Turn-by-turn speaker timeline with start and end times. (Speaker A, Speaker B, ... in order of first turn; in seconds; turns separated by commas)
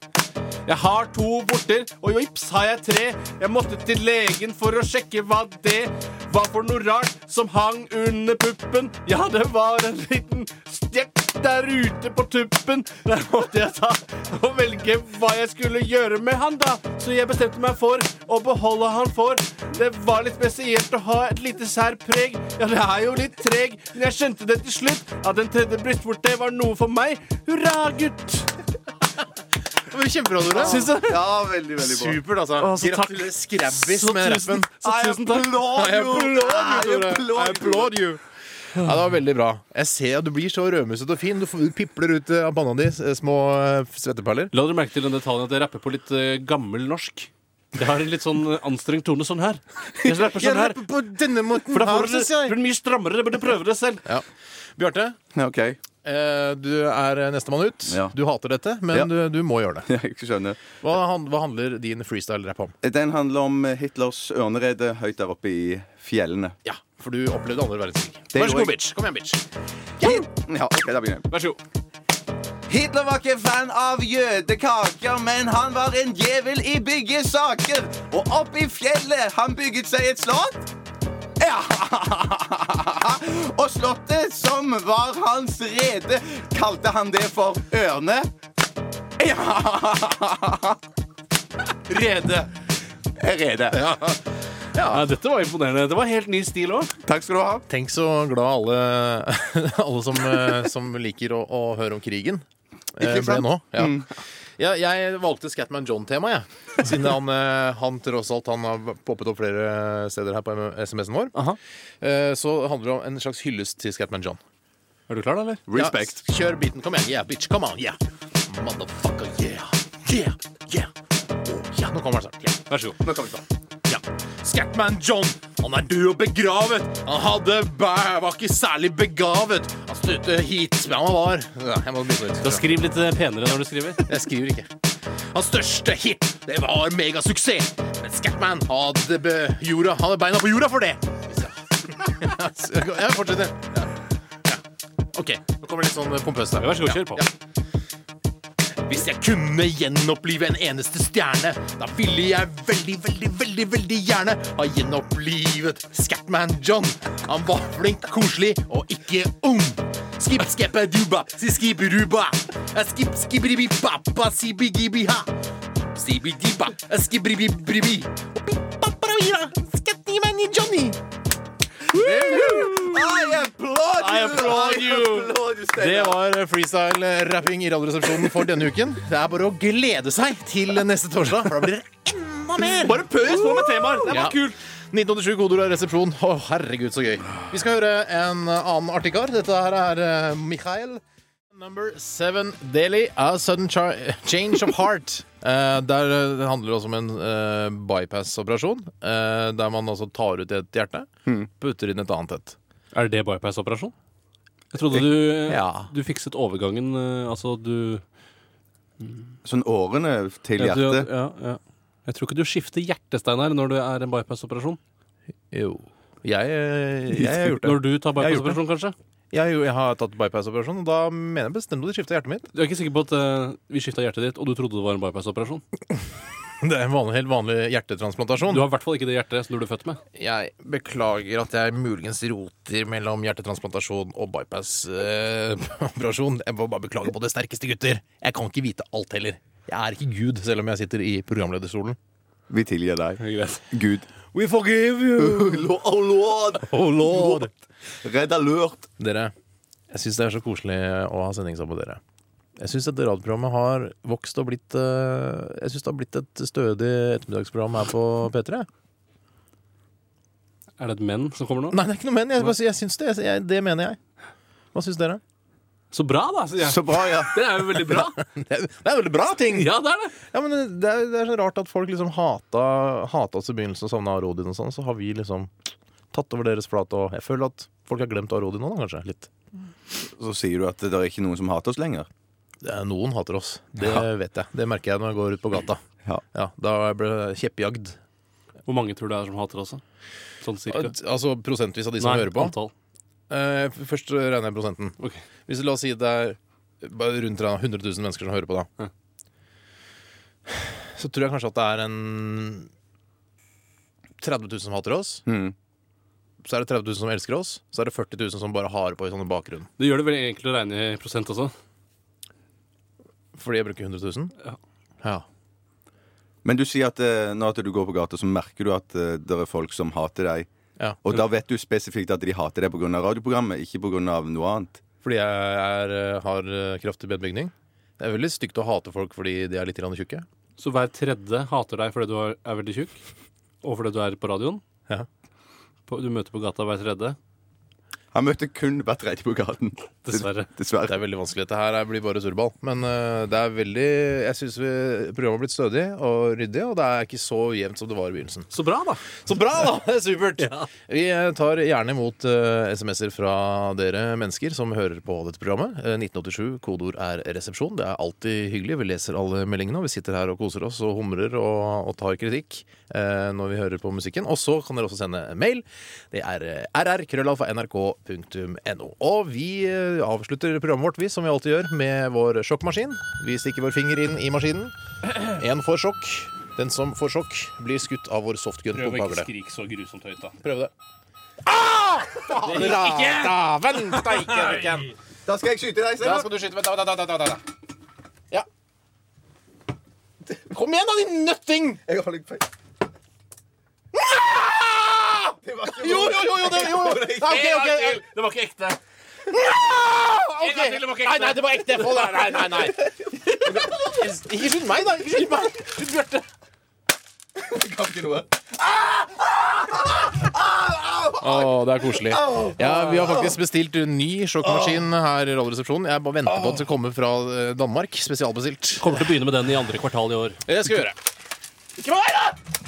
Speaker A: 0.7-28.6, Speaker B: 29.8-30.9, Speaker A: 30.5-31.2, Speaker C: 30.6-32.2, Speaker B: 31.8-34.7, Speaker A: 32.6-35.6, Speaker C: 34.8-38.0, Speaker B: 35.6-44.5, Speaker A: 44.5-50.8, Speaker B: 50.3-52.6, Speaker A: 51.6-54.0, Speaker B: 54.8-55.2, Speaker C: 55.3-55.8, Speaker B: 56.0-59.9, Speaker C: 57.9-58.1, Speaker C: 59.9-60.6, Speaker B: 60.8-62.8, Speaker C: 62.8-66.5, Speaker B: 66.7-69.4, Speaker C: 68.3-68.8, Speaker C: 70.0-71.3, Speaker A: 71.3-71.6, Speaker C: 72.7-80.7, Speaker C: 81.4-88.3, Speaker C: 89.2-90.8, Speaker B: 91.9-92.5, Speaker C: 93.2-93.9, Speaker B: 93.7-94.2, Speaker B: 94.7-95.0, Speaker A: 94.9-96.9, Speaker C: 97.0-97.7, Speaker B: 97.7-111.3, Speaker C: 103.0-104.1, Speaker B: 112.0-114.4, Speaker A: 115.1-116.2, Speaker B: 115.7-122.6, Speaker A: 122.7-123.0, Speaker C: 123.0-123.4, Speaker B: 123.9-132.7, Speaker A: 132.4-134.1, Speaker B: 134.0-134.7, Speaker B: 135.3-143.9, Speaker B: 145.1-147.3, Speaker A: 146.6-147.3, Speaker B: 148.8-165.3, Speaker B: 165.9-171.0, Speaker B: 171.9-173.0, Speaker A: 172.0-172.7, Speaker C: 172.3-176.2, Speaker A: 174.0-175.3, Speaker B: 175.7-183.0, Speaker A: 182.6-184.6, Speaker B: 184.1-191.0, Speaker B: 191.5-202.6, Speaker A: 202.9-203.9, Speaker A: 204.7-208.0, Speaker B: 205.5-205.9, Speaker A: 209.0-209.3, Speaker C: 209.4-211.1, Speaker A: 210.6-214.8, Speaker B: 215.5-218.6, Speaker A: 217.2-218.9, Speaker B: 219.3-222.5, Speaker A: 222.5-225.6, Speaker B: 226.6-228.7, Speaker A: 228.4-230.0, Speaker B: 230.2-242.0, Speaker C: 242.5-244.1, Speaker A: 243.2-243.6, Speaker B: 244.3-245.7, Speaker C: 245.2-247.5, Speaker B: 246.7-247.5, Speaker C: 248.0-248.9, Speaker B: 249.0-249.3, Speaker B: 249.9-252.0, Speaker B: 252.6-258.7, Speaker A: 260.8-261.8, Speaker B: 261.7-264.0, Speaker B: 264.7-265.2, Speaker A: 265.9-268.2, Speaker C: 266.6-267.3, Speaker B: 267.9-275.5, Speaker A: 269.5-270.1, Speaker B: 276.1-279.3, Speaker C: 280.0-282.1, Speaker B: 282.6-288.0, Speaker A: 288.7-289.8, Speaker A: 290.4-290.9, Speaker B: 290.7-292.6, Speaker A: 292.0-292.7, Speaker B: 293.3-298.7, Speaker B: 300.5-302.7, Speaker B: 304.2-305.2, Speaker C: 305.3-305.6, Speaker B: 306.4-309.7, Speaker A: 309.8-311.5, Speaker B: 313.4-314.3, Speaker C: 316.4-320.5, Speaker C: 321.0-324.8, Speaker B: 325.0-330.2, Speaker A: 330.6-333.0, Speaker A: 333.6-334.6, Speaker A: 335.9-337.2, Speaker C: 338.1-341.0, Speaker A: 340.0-340.5, Speaker B: 340.9-348.5, Speaker A: 348.5-349.1, Speaker B: 349.2-379.3, Speaker A: 350.4-350.7, Speaker A: 378.8-380.3, Speaker B: 380.4-380.7, Speaker B: 381.5-384.9, Speaker A: 382.2-383.4, Speaker A: 383.9-384.6, Speaker C: 385.2-386.3, Speaker B: 386.0-387.4, Speaker B: 390.3-391.8, Speaker C: 391.9-392.5, Speaker B: 393.9-398.0, Speaker C: 395.4-397.4, Speaker A: 397.2-398.8, Speaker B: 399.3-406.3, Speaker A: 400.3-402.4, Speaker C: 403.6-403.9, Speaker C: 407.4-413.3, Speaker B: 411.2-419.0, Speaker A: 418.8-420.4, Speaker B: 420.5-421.0